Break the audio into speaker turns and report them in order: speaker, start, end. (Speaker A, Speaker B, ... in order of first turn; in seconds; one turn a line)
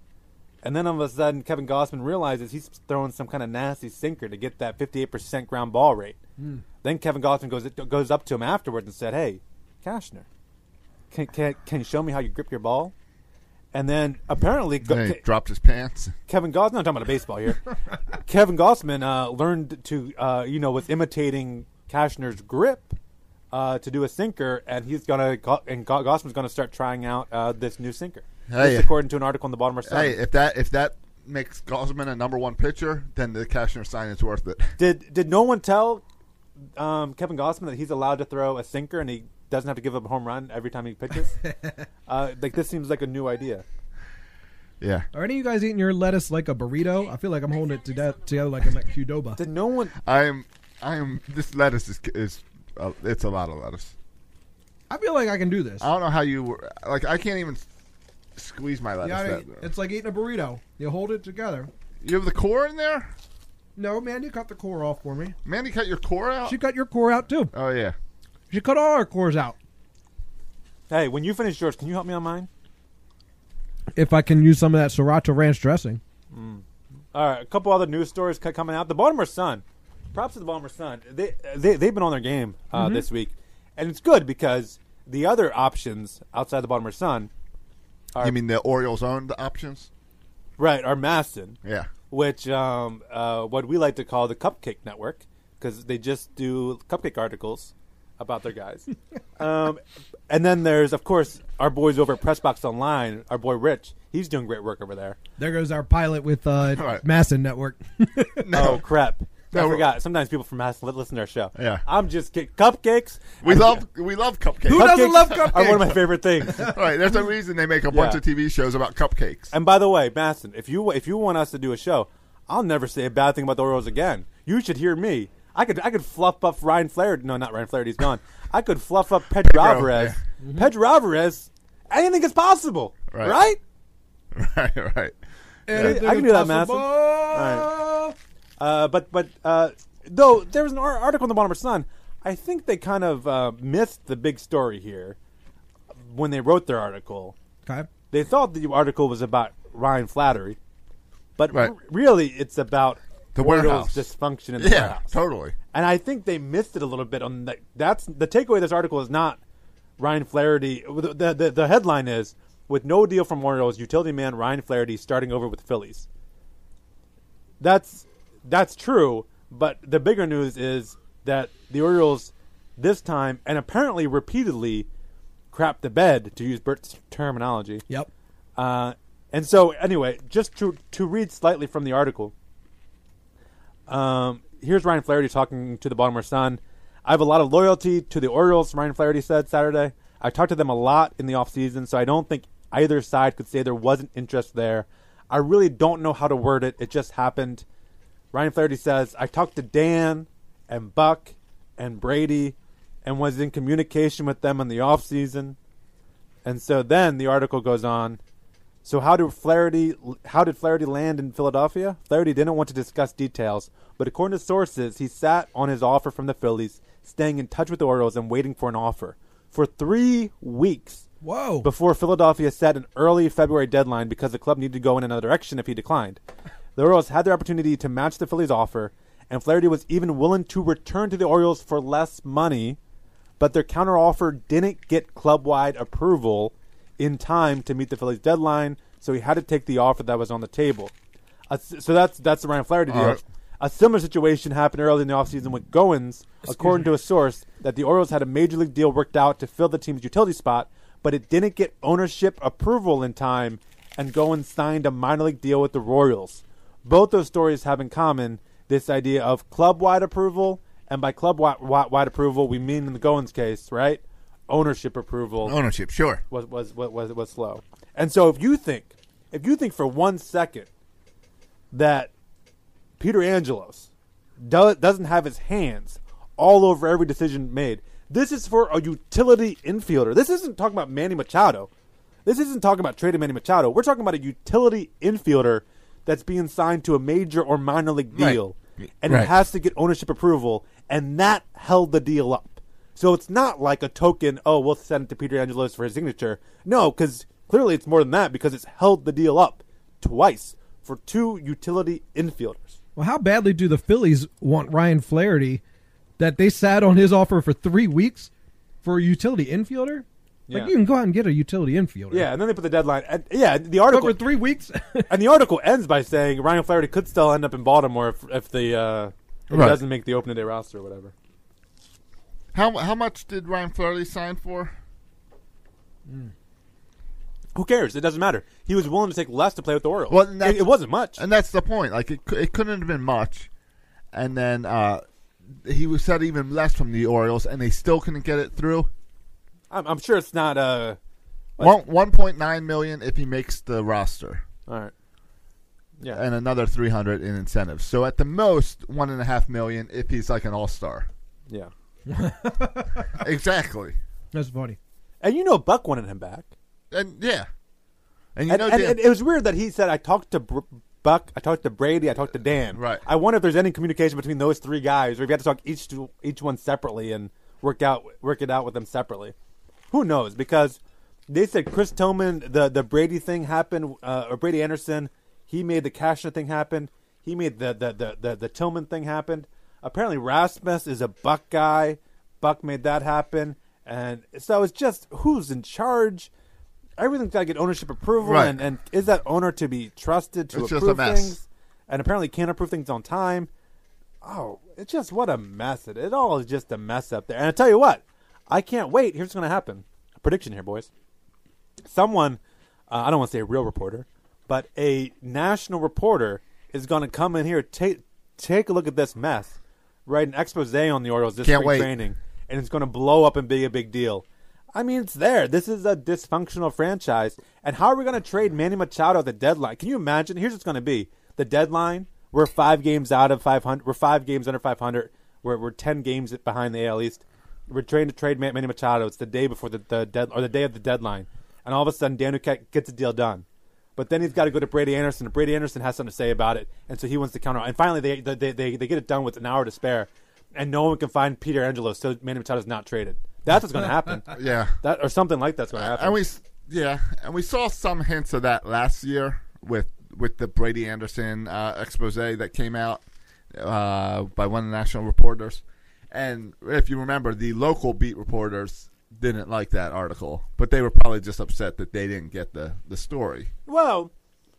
Speaker A: 0.6-6.2
Speaker A: 6.8-10.3
Speaker A: 11.1-12.9
Speaker A: 13.7-15.2
Speaker B: 14.8-16.1
Speaker A: 16.3-22.9
Speaker A: 23.5-30.2
Speaker B: 28.5-28.9
Speaker B: 29.9-34.8
Speaker A: 34.8-36.0
Speaker A: 36.8-41.4
Speaker A: 42.1-43.6
Speaker B: 44.8-45.1
Speaker C: 45.1-49.4
Speaker A: 49.4-50.0
Speaker B: 50.0-53.9
Speaker C: 54.9-55.9
Speaker B: 55.8-57.6
Speaker B: 58.4-59.7
Speaker C: 59.0-61.7
Speaker B: 62.0-63.1
Speaker C: 63.8-65.3
Speaker B: 65.5-66.6
Speaker C: 66.5-67.5
Speaker B: 67.5-68.0
Speaker C: 68.5-69.6
Speaker A: 70.9-72.5
Speaker C: 74.0-76.0
Speaker A: 76.3-87.3
Speaker C: 82.7-83.0
Speaker B: 88.2-89.9
Speaker A: 90.6-91.6
Speaker B: 91.6-91.9
Speaker A: 92.1-105.2
Speaker C: 105.4-108.5
Speaker B: 106.7-107.0
Speaker B: 108.4-108.8
Speaker A: 108.5-113.8
Speaker B: 109.5-109.9
Speaker B: 111.5-111.8
Speaker B: 113.4-119.5
Speaker C: 114.7-116.7
Speaker A: 114.7-116.7
Speaker A: 117.9-118.2
Speaker A: 119.5-133.6
Speaker B: 129.4-130.2
Speaker C: 130.4-130.7
Speaker B: 133.1-133.4
Speaker B: 134.3-135.2
Speaker C: 135.7-138.2
Speaker B: 135.7-136.0
Speaker A: 135.7-137.7
Speaker A: 138.6-145.2
Speaker A: 146.1-147.3
Speaker A: 148.1-150.6
Speaker A: 151.4-155.2
Speaker B: 151.5-151.8
Speaker B: 153.3-155.6
Speaker A: 155.7-159.4
Speaker A: 160.0-166.1
Speaker A: 167.6-174.9
Speaker A: 175.5-177.8
Speaker A: 178.6-182.3
Speaker A: 183.9-197.7
Speaker A: 198.3-205.6
Speaker A: 206.4-208.2
Speaker A: 208.8-221.1
Speaker C: 221.2-221.7
Speaker A: 221.6-226.2
Speaker A: 226.8-232.8
Speaker A: 233.4-240.9
Speaker A: 241.5-265.6
Speaker B: 242.9-243.2
Speaker C: 246.5-246.9
Speaker B: 265.4-266.2
Speaker A: 266.3-270.7
Speaker A: 271.7-272.1
Speaker A: 273.0-273.9
Speaker A: 274.4-281.7
Speaker A: 282.2-302.8
Speaker B: 288.1-288.4
Speaker B: 289.0-289.4
Speaker C: 303.0-305.6
Speaker C: 306.2-308.3
Speaker C: 308.8-312.3
Speaker A: 312.1-314.2
Speaker C: 313.9-315.1
Speaker A: 315.1-321.1
Speaker B: 319.5-319.8
Speaker B: 322.5-324.7
Speaker A: 327.6-331.2
Speaker B: 330.1-333.5
Speaker B: 334.1-335.0
Speaker B: 335.6-338.9
Speaker A: 339.7-341.0
Speaker B: 341.6-344.4
Speaker A: 344.7-344.9
Speaker B: 346.1-351.1
Speaker C: 352.1-353.1
Speaker B: 353.2-354.0
Speaker C: 354.3-354.8
Speaker A: 355.2-356.5
Speaker B: 356.9-357.5
Speaker B: 358.4-359.0
Speaker A: 358.5-369.3
Speaker B: 362.7-363.0
Speaker A: 369.9-386.3
Speaker A: 387.0-393.5
Speaker B: 388.2-388.6
Speaker B: 390.5-391.4
Speaker A: 394.2-400.9
Speaker A: 401.9-433.4
Speaker B: 411.4-411.9
Speaker A: 434.0-446.2
Speaker B: 444.3-444.8
Speaker B: 445.7-463.5
Speaker A: 463.7-464.1